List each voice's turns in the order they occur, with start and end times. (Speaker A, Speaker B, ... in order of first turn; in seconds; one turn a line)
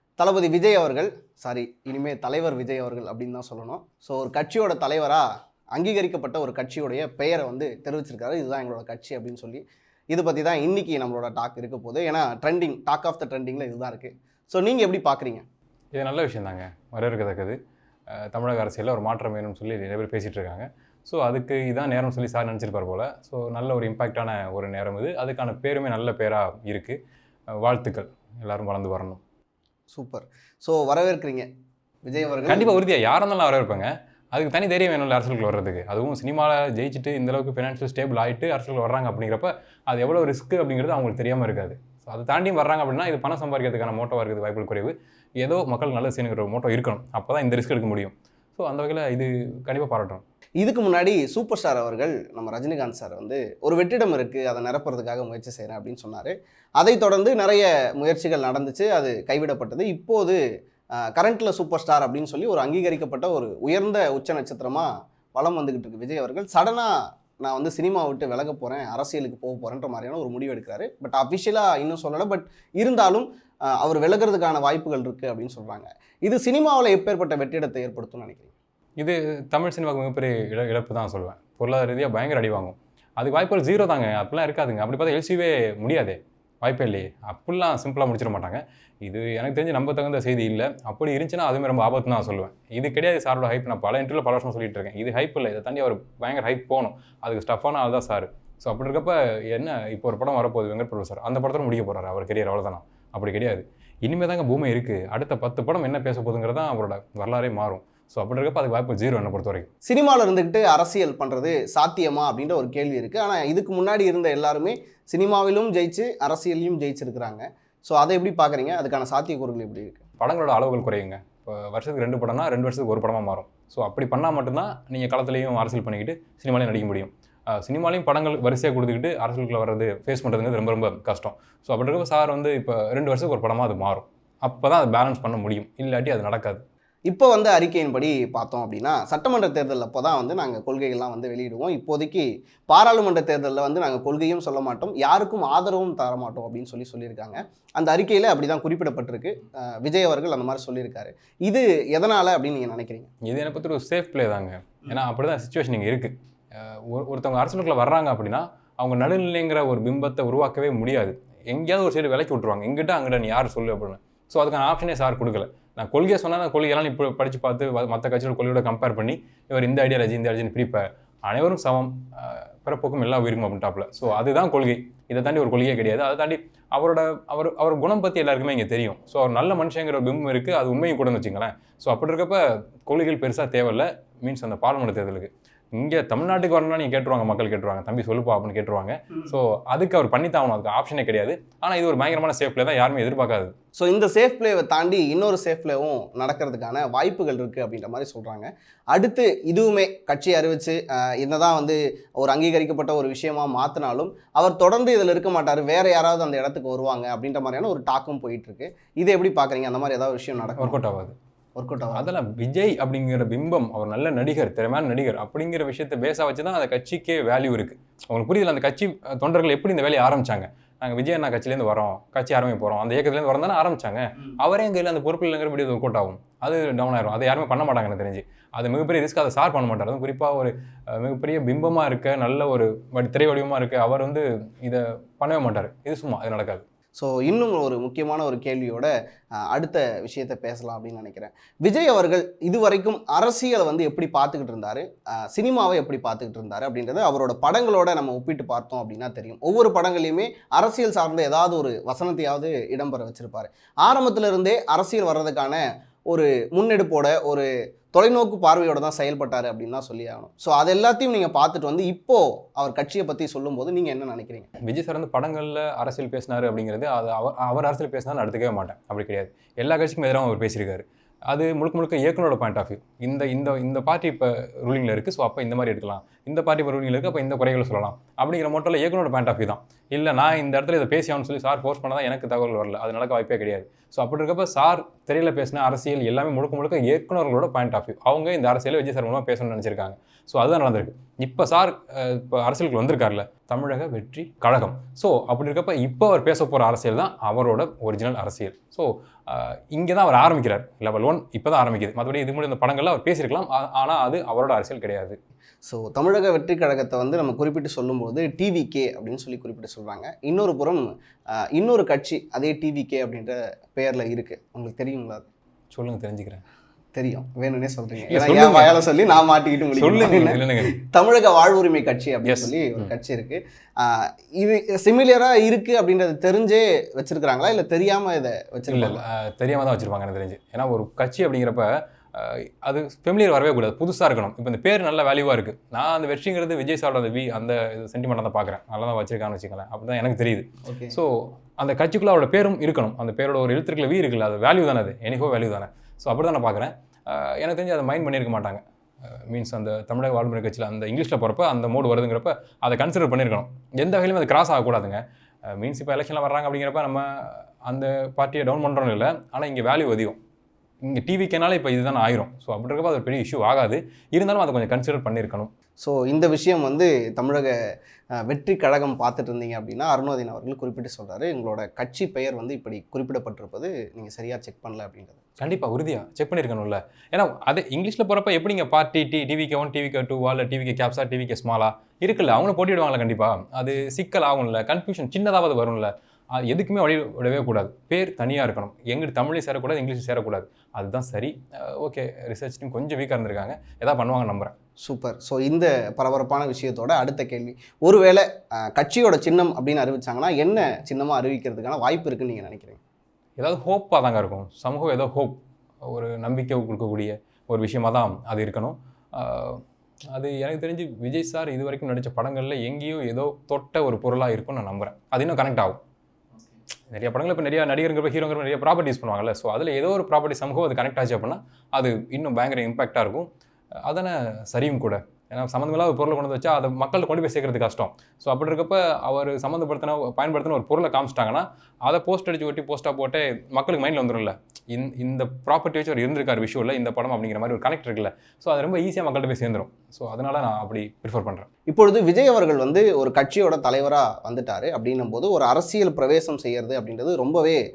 Speaker A: 0.2-15.4
Speaker B: 15.9-17.6
Speaker B: 18.1-27.0
Speaker B: 27.6-29.2
Speaker A: 29.9-31.5
Speaker A: 32.0-32.8
Speaker B: 32.5-50.2
Speaker A: 50.6-60.4
Speaker A: 61.0-78.5
Speaker B: 79.0-109.7
Speaker A: 109.9-120.0
Speaker B: 120.2-136.6
Speaker A: 137.1-153.1
Speaker B: 153.2-193.5
Speaker A: 193.8-210.8
Speaker B: 210.6-211.2
Speaker A: 211.6-212.1
Speaker B: 211.9-236.6
Speaker A: 237.0-238.9
Speaker A: 239.4-264.5
Speaker B: 264.7-305.2
Speaker A: 305.7-310.9
Speaker A: 311.4-315.3
Speaker B: 315.7-316.4
Speaker A: 316.9-329.0
Speaker B: 318.1-318.8
Speaker B: 319.8-320.8
Speaker B: 322.2-322.9
Speaker B: 328.7-360.2
Speaker A: 340.7-341.0
Speaker B: 360.8-365.5
Speaker A: 365.8-367.6
Speaker A: 368.2-375.2
Speaker B: 375.4-394.5
Speaker A: 394.8-402.8
Speaker B: 403.4-409.6
Speaker B: 410.1-415.8
Speaker B: 416.9-423.3
Speaker B: 423.9-441.5
Speaker A: 441.7-447.6